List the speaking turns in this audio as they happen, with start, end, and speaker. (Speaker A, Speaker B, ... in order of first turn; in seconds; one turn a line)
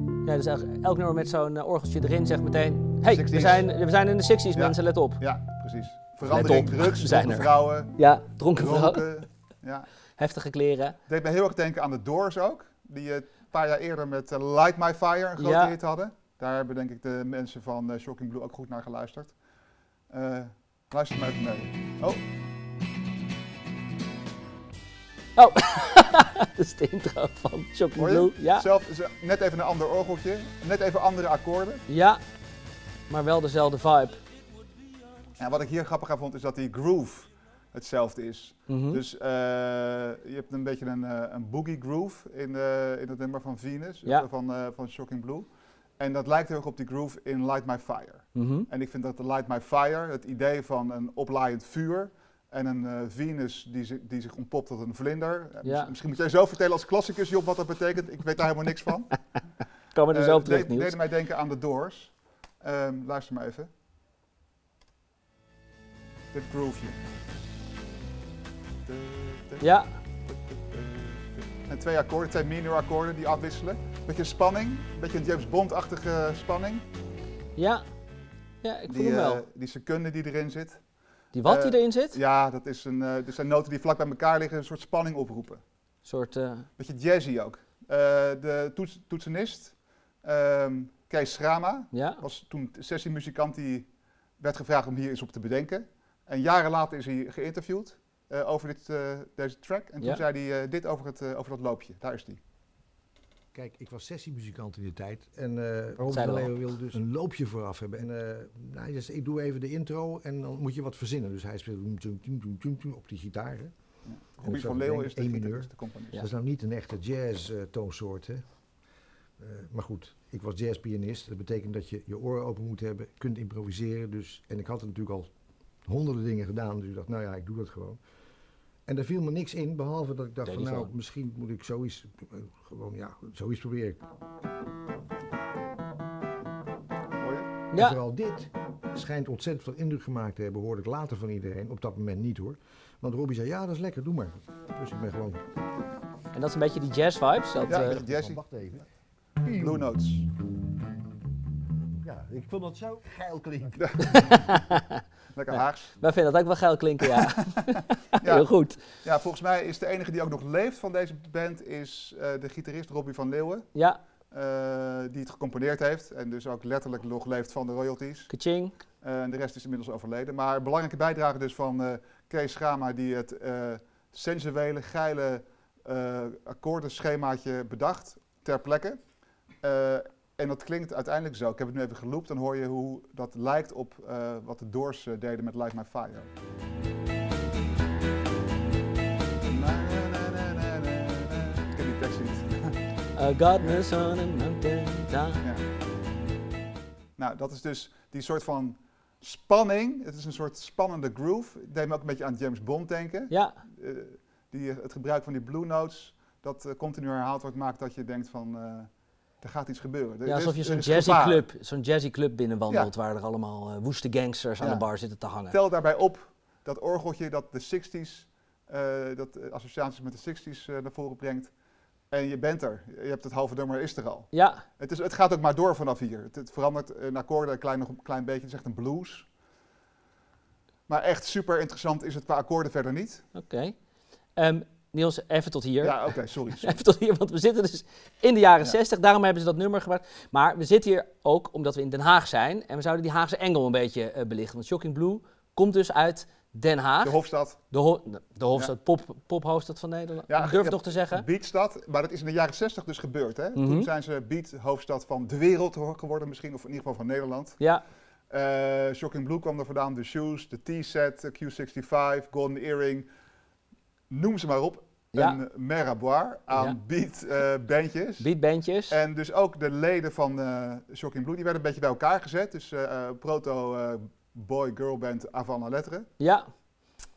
Speaker A: 0.2-5.2
Speaker B: 3.0-3.7
Speaker B: 4.5-7.9
Speaker A: 6.3-9.0
Speaker B: 8.5-9.9
Speaker A: 10.2-11.0
Speaker B: 11.1-19.3
Speaker A: 15.4-15.8
Speaker B: 20.1-22.2
Speaker A: 25.4-28.7
Speaker B: 28.0-31.8
Speaker A: 31.9-32.2
Speaker A: 33.1-34.2
Speaker B: 35.4-45.5
Speaker A: 38.7-39.0
Speaker B: 46.0-59.2
Speaker A: 48.4-48.7
Speaker A: 55.6-55.9
Speaker A: 60.0-61.0
Speaker B: 60.1-63.7
Speaker B: 66.3-67.0
Speaker B: 68.8-69.7
Speaker A: 69.6-69.9
Speaker B: 70.3-76.8
Speaker A: 77.6-77.8
Speaker A: 78.6-79.4
Speaker B: 78.9-80.8
Speaker A: 81.3-82.2
Speaker B: 81.4-85.6
Speaker A: 86.0-86.7
Speaker B: 86.8-93.9
Speaker A: 91.9-92.2
Speaker B: 94.4-102.4
Speaker C: 103.5-113.7
Speaker A: 106.1-106.5
Speaker B: 114.1-116.2
Speaker C: 114.4-118.4
Speaker C: 119.4-125.3
Speaker C: 125.8-128.0
Speaker C: 128.9-134.0
Speaker A: 130.5-130.9
Speaker B: 137.2-137.5
Speaker A: 137.7-138.0
Speaker C: 137.7-145.4
Speaker A: 146.3-148.0
Speaker C: 147.6-148.9
Speaker B: 147.7-148.4
Speaker C: 149.4-149.9
Speaker B: 149.5-150.3
Speaker C: 152.0-154.4
Speaker B: 153.8-154.5
Speaker A: 154.1-158.8
Speaker B: 155.3-155.9
Speaker B: 158.2-158.5
Speaker B: 159.0-163.7
Speaker B: 164.3-168.3
Speaker A: 168.3-168.7
Speaker B: 169.0-179.0
Speaker B: 179.6-186.3
Speaker B: 189.4-192.8
Speaker A: 193.2-195.4
Speaker B: 197.2-208.9
Speaker A: 203.3-203.6
Speaker B: 209.4-211.4
Speaker A: 210.3-215.6
Speaker B: 214.6-214.9
Speaker B: 215.5-221.5
Speaker B: 222.1-229.3
Speaker A: 224.3-224.6
Speaker B: 230.9-233.2
Speaker A: 233.3-233.8
Speaker A: 234.4-236.1
Speaker B: 235.8-236.8
Speaker A: 236.6-247.2
Speaker B: 247.0-247.6
Speaker A: 247.7-251.3
Speaker B: 250.3-257.6
Speaker A: 253.6-253.9
Speaker B: 258.3-263.1
Speaker B: 264.1-268.3
Speaker A: 265.1-265.4
Speaker A: 266.5-266.8
Speaker A: 268.2-269.0
Speaker B: 268.9-276.1
Speaker A: 276.2-276.5